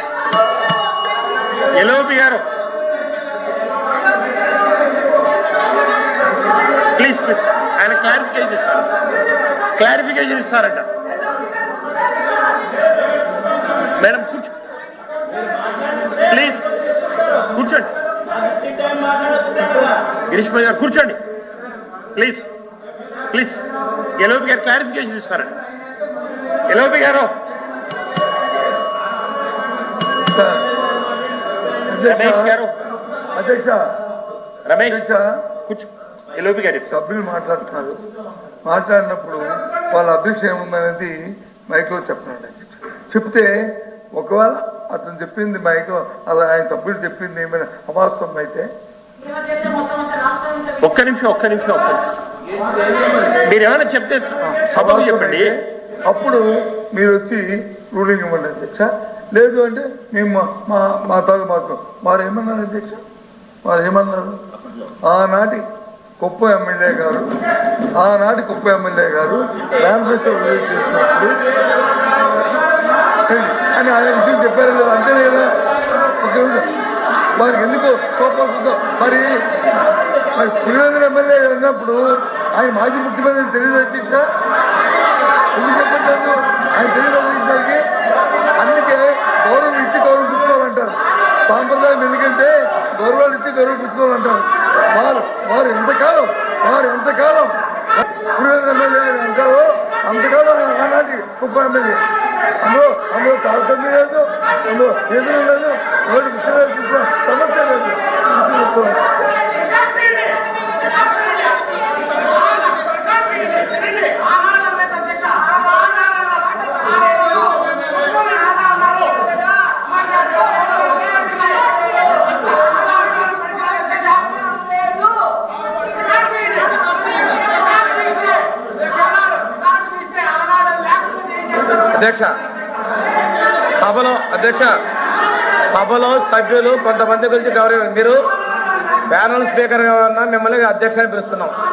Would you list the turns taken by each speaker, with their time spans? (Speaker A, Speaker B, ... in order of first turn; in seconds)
Speaker A: 1.8-2.4, 7.0-8.9, 9.8-10.9, 14.0-14.5, 16.3-16.7, 17.5-17.9, 20.3-21.2, 22.1-22.4, 23.3-23.6, 24.2-25.5, 26.7-27.3, 32.1-32.7, 34.7-35.0, 35.7-36.9, 50.8-52.0, 53.5-55.5
Speaker B: 30.3-30.7, 31.9-32.6, 33.4-33.8, 34.8-35.3, 36.9-38.0, 38.6-41.1, 41.7-48.7, 54.5-63.0, 63.6-64.4, 65.1-65.6, 66.2-67.3, 68.0-71.4, 73.3-75.5, 76.2-76.7, 77.4-79.3, 80.3-84.2, 85.5-87.8, 88.6-97.5, 98.3-102.0, 102.6-109.0
Speaker C: 132.0-132.2, 133.8-134.6, 135.8-138.1, 139.2-141.5